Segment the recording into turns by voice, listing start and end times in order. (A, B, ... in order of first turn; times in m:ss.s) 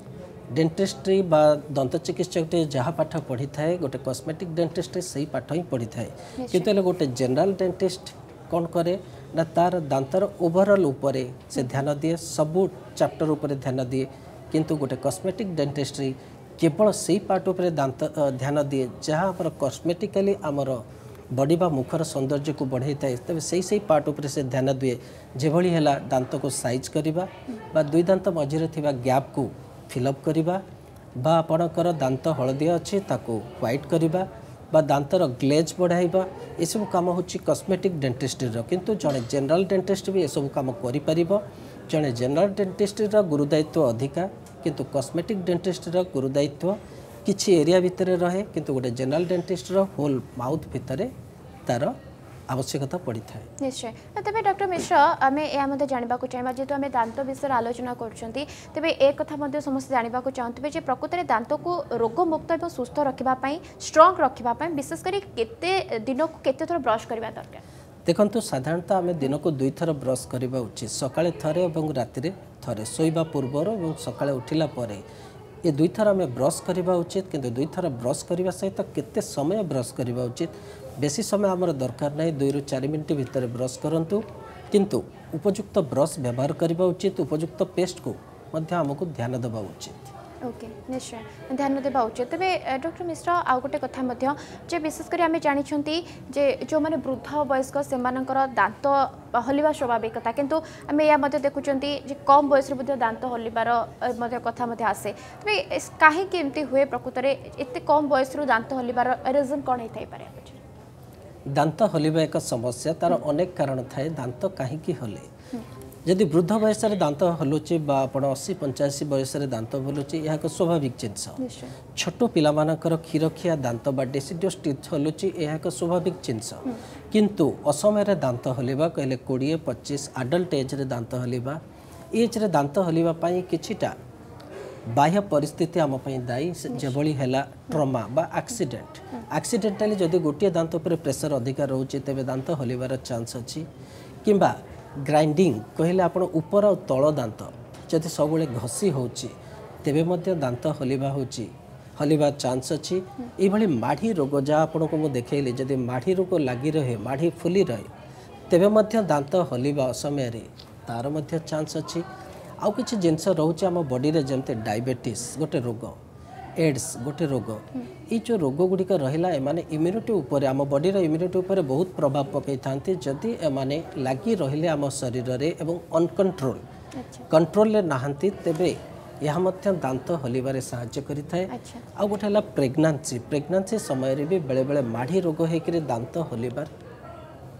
0:00.5-0:30.6 A
0:06.4-0:06.7 B
0:11.5-0:11.8 B
0:31.2-0:51.1 A
0:51.7-0:52.0 A
0:52.5-0:53.5 A
0:53.6-1:07.6 B
1:08.0-1:15.0 A
1:15.6-1:30.0 A
1:30.4-1:50.6 B
1:51.5-1:55.3 A
1:56.0-2:01.4 A
2:01.4-2:01.7 B
2:01.9-2:11.6 A
2:12.1-2:13.9 A
2:14.9-2:23.7 A
2:24.2-2:37.9 A
2:38.5-2:42.0 A
2:42.6-2:46.0 A
2:46.6-2:56.6 A
2:57.0-2:57.3 B
2:57.3-3:06.7 A
3:01.5-3:01.8 B